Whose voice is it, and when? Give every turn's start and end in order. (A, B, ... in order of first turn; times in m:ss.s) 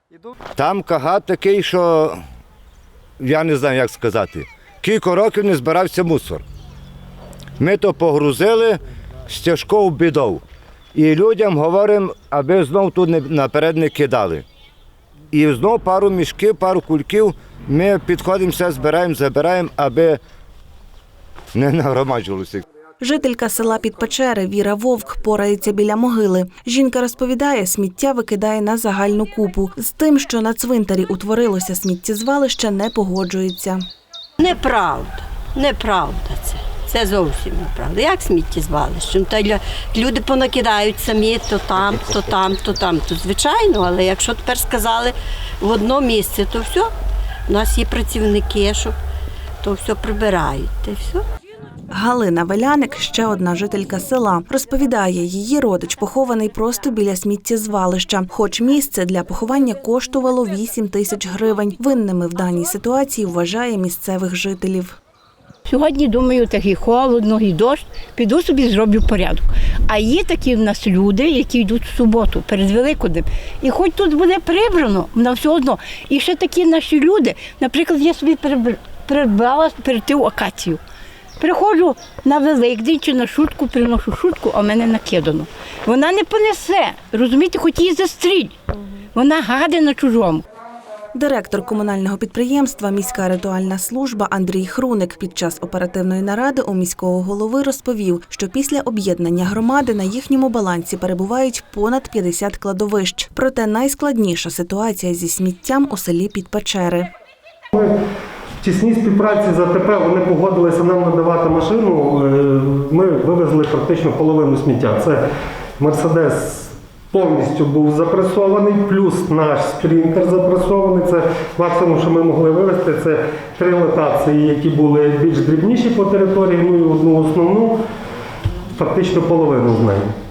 0:00.6-0:02.2 A
0:03.2-0:06.4 A
0:07.6-0:10.4 A
0:11.0-0:14.4 A
0:15.3-0:20.2 A
0:21.6-0:22.6 A
0:23.0-0:33.8 B
0:34.4-0:46.9 C
0:47.5-0:49.0 C
0:49.6-0:51.2 C
0:51.9-1:05.0 B
1:05.7-1:20.8 D
1:21.4-1:30.4 D
1:31.2-1:47.1 B
1:48.6-1:55.2 E
1:55.8-2:07.8 E
2:08.8-2:10.2 E